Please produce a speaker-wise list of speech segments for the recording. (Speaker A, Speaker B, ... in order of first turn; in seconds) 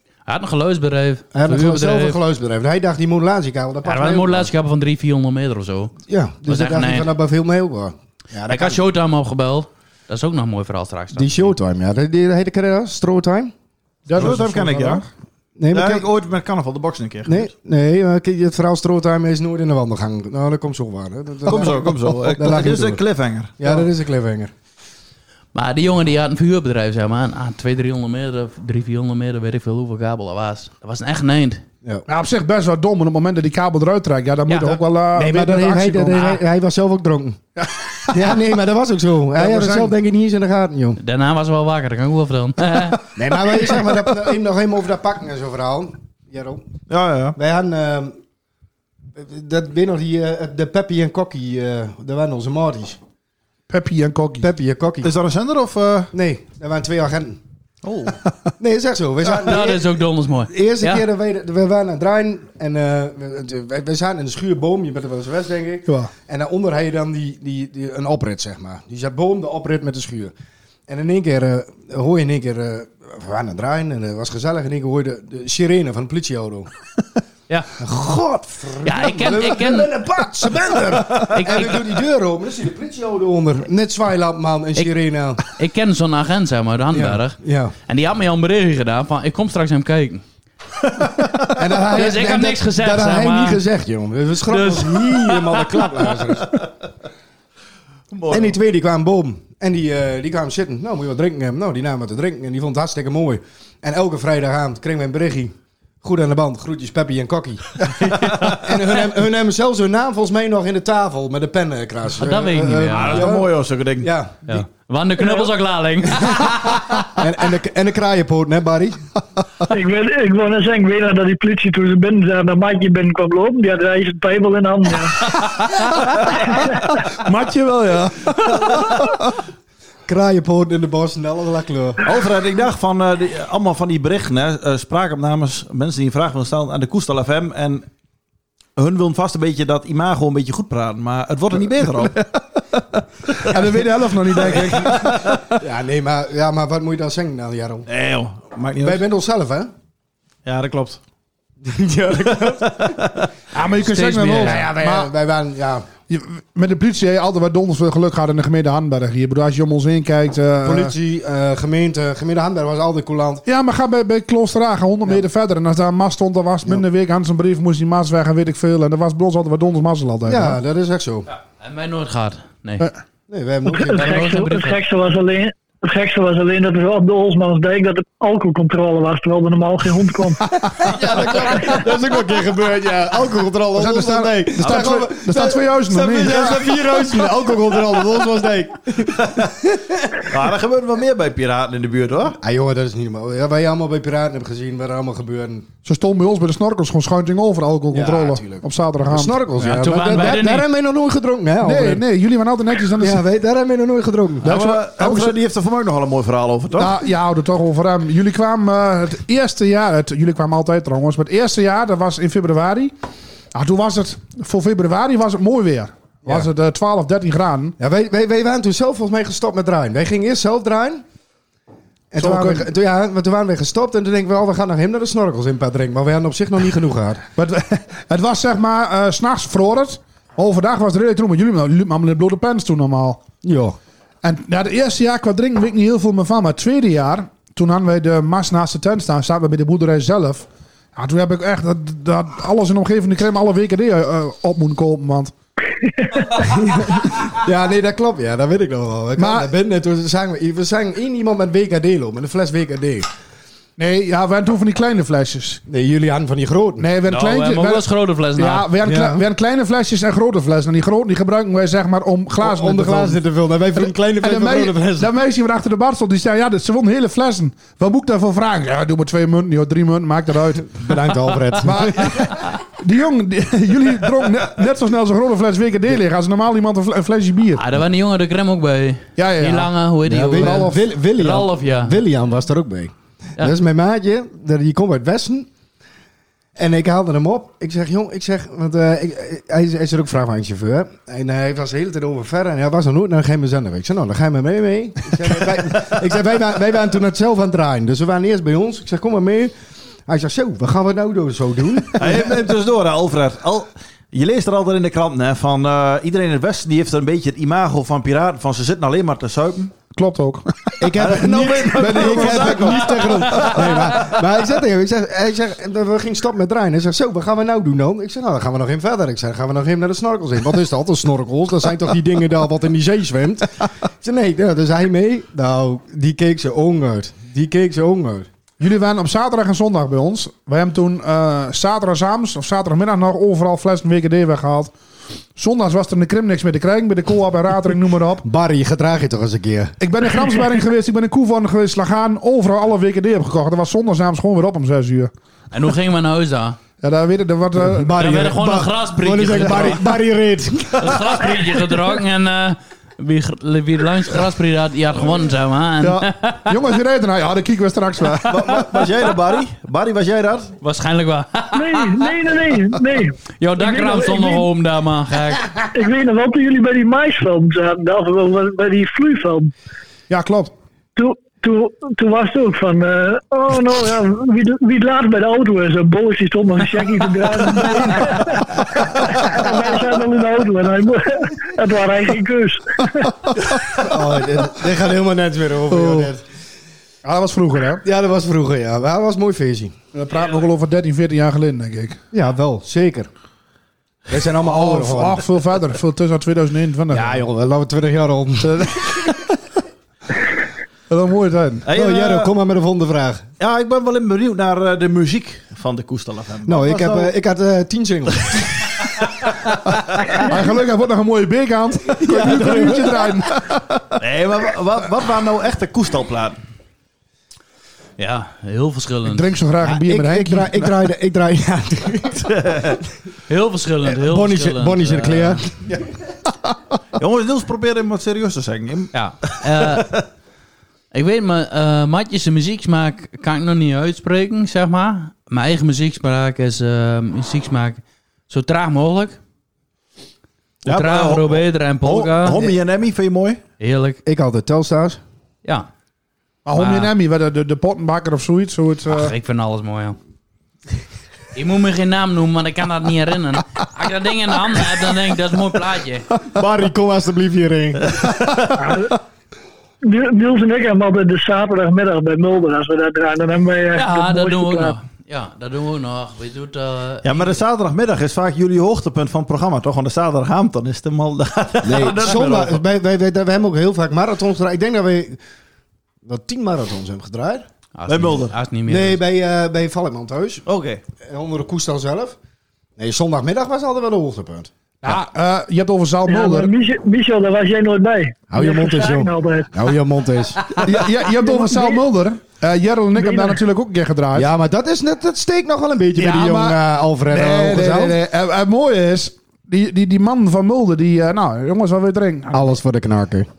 Speaker A: 0.3-2.2, 3.8-5.9, 6.5-7.1, 8.5-11.5, 25.5-31.6, 34.5-34.8, 41.0-43.0, 59.4-61.0, 78.8-79.9, 81.2-81.8, 84.8-90.2, 91.9-93.6, 94.5-95.8, 112.2-113.3, 114.5-116.8, 153.8-154.6, 171.3-172.9, 173.8-174.8, 199.6-200.7, 257.0-258.7, 277.6-282.0, 345.5-346.6, 347.9-349.9, 350.8-356.6, 360.6-362.1, 363.4-365.5, 418.0-419.3, 423.3-425.4, 428.9-429.9, 430.9-439.2, 440.6-442.5, 443.6-444.0, 446.5-446.9, 448.9-450.0, 451.3-456.1, 463.7-467.4, 477.8-479.0
Speaker B: 1.3-4.5, 6.1-8.8, 11.1-13.5, 15.6-16.1, 17.2-23.0, 23.6-24.5, 35.1-37.4, 38.1-41.0, 43.1-46.6, 47.4-48.1, 49.2-53.0, 54.4-55.1, 56.1-57.4, 58.6-59.9, 60.5-70.3, 70.9-76.7, 77.8-85.4, 86.9-87.7, 91.5-96.6, 98.3-107.8, 108.4-114.6, 117.1-119.0, 130.1-132.0, 144.4-145.1, 145.6-147.8, 148.8-149.7, 151.6-153.0, 154.4-155.9, 160.6-163.4, 170.3-171.3, 173.3-174.2, 180.8-190.2, 192.4-195.7, 197.9-202.0, 202.9-204.6, 217.8-221.0, 222.1-227.2, 233.4-233.8, 246.4-253.1, 255.7-256.9, 258.8-259.2, 262.4-265.1, 270.7-272.3, 280.1-285.5, 286.6-299.5, 300.1-302.4, 310.8-328.3, 338.2-339.7, 347.6-351.2, 383.8-386.2, 387.8-389.7, 392.1-393.1, 394.1-395.2, 396.9-398.7, 401.7-403.3, 406.4-408.7, 412.0-413.1, 419.6-422.4, 423.9-425.6, 444.0-445.0, 456.3-458.0, 471.6-475.2, 476.0-477.4, 478.7-480.4, 481.0-482.1, 482.8-484.5, 488.3-490.5, 494.1-498.0, 502.3-503.3
Speaker C: 14.1-15.1, 32.1-36.3, 39.4-40.0, 53.7-54.5, 65.9-66.1, 127.2-129.3, 143.4-145.3, 153.5-155.1, 156.1-160.9, 163.4-170.6, 183.8-187.3, 195.8-199.4, 200.1-200.4, 201.6-203.2, 204.4-205.3, 206.8-212.9, 213.5-217.8, 222.2-222.7, 227.3-233.2, 234.2-245.3, 249.2-249.5, 253.8-255.6, 256.8-257.9, 258.4-263.2, 263.7-270.7, 271.6-277.6, 279.2-279.7, 280.3-280.8, 309.9-313.7, 328.6-334.7, 335.4-338.2, 339.8-345.1, 346.8-348.1, 355.8-358.6, 370.1-370.5, 385.7-386.1, 387.0-387.8, 389.9-392.0, 394.3-397.2, 398.4-398.9, 400.9-401.7, 410.2-413.8, 419.1-420.7, 446.4-449.1, 484.8-486.5, 490.6-494.3, 495.9-502.5
Speaker D: 14.1-15.0, 15.7-17.5, 21.4-23.8, 46.9-47.4, 55.0-56.1, 57.8-58.1, 98.1-98.6, 112.9-114.1, 132.0-137.9, 138.8-142.2, 144.4-145.4, 147.9-149.0, 150.4-151.0, 152.5-153.3, 190.3-192.4, 204.4-207.0, 302.0-309.7, 311.0-313.5, 358.3-360.5, 401.6-402.3, 403.4-407.1, 414.0-416.4, 422.3-422.8, 427.0-430.0, 440.6-443.4, 467.0-472.6, 477.9-478.3, 480.4-480.8
Speaker E: 119.7-125.2, 173.7-180.4, 361.5-364.5, 365.7-369.5, 370.9-378.4, 379.1-382.8, 458.6-458.9, 459.8-464.8, 486.1-489.6, 491.0-491.8, 492.9-493.4